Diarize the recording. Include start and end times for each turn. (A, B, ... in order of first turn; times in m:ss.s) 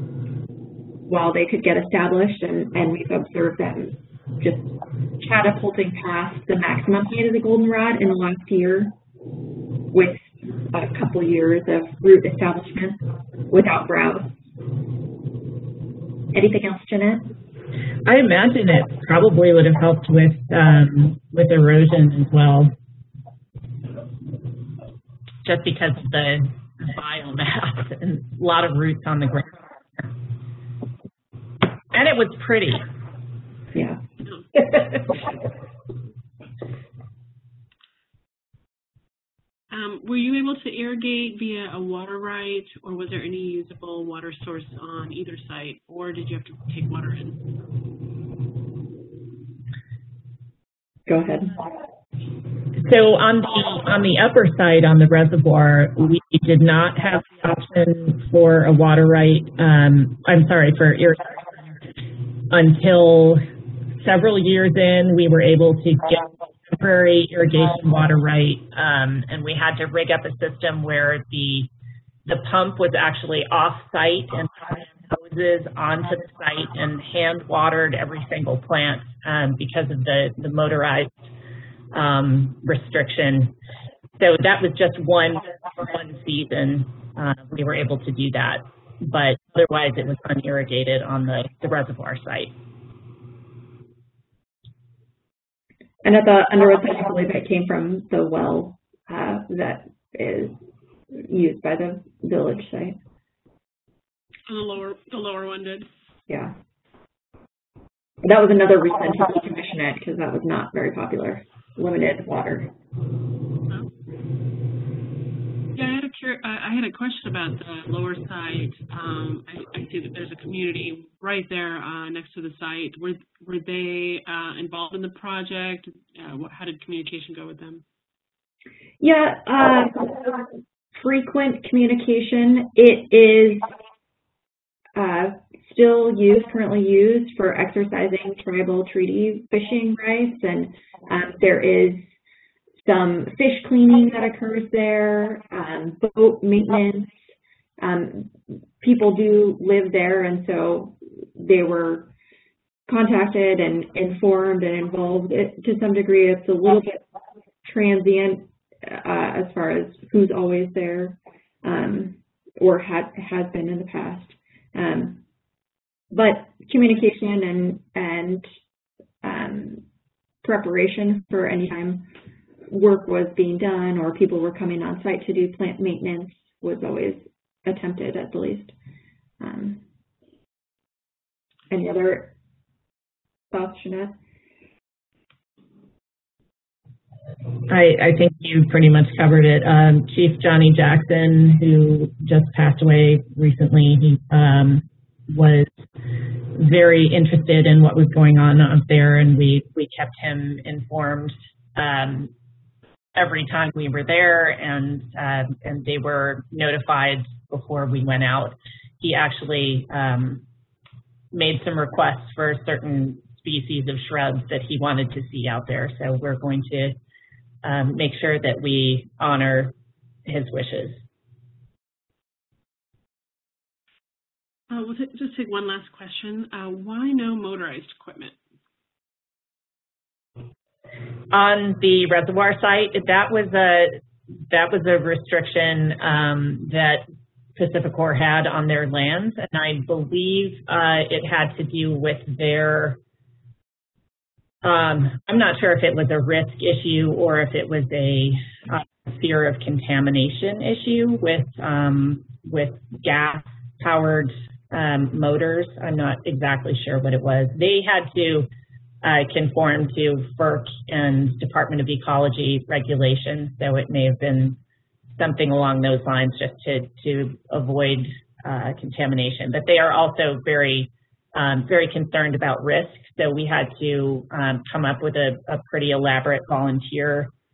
0:01.1-0:08.9 A
0:09.9-0:14.3 A
0:16.3-0:17.3 A
0:18.0-0:22.7 B
0:25.4-0:30.1 B
0:31.9-0:32.9 B
0:33.7-0:34.0 A
0:34.6-0:35.4 B
0:39.7-0:47.5 C
0:51.1-0:51.6 A
0:52.7-1:01.6 B
1:02.5-1:03.4 B
1:04.0-1:11.7 B
1:12.3-1:21.3 B
1:21.9-1:23.6 B
1:24.2-1:32.6 B
1:36.0-1:40.6 A
1:41.1-1:43.0 A
1:44.5-1:45.9 C
1:46.3-1:46.5 A
1:48.2-1:52.7 A
1:55.7-2:07.8 C
2:09.0-2:13.7 A
2:15.0-2:22.0 A
2:22.8-2:27.1 A
2:27.8-2:32.1 A
2:32.9-2:37.0 A
2:37.6-2:45.2 A
2:46.1-2:48.4 A
2:49.2-2:49.8 A
2:50.4-2:52.1 A
2:52.7-2:58.7 A
2:59.4-2:59.8 A
3:01.7-3:02.3 A
3:03.5-3:04.2 A
3:07.7-3:15.7 B
3:16.5-3:22.3 B
3:23.2-3:30.4 B
3:31.3-3:37.0 B
3:37.6-3:39.7 B
3:40.3-3:41.0 B
3:44.7-3:48.4 C
3:51.3-3:54.0 B
3:54.5-3:57.0 B
3:57.6-4:03.0 B
4:04.6-4:18.5 B
4:19.0-4:24.6 B
4:25.1-4:37.3 B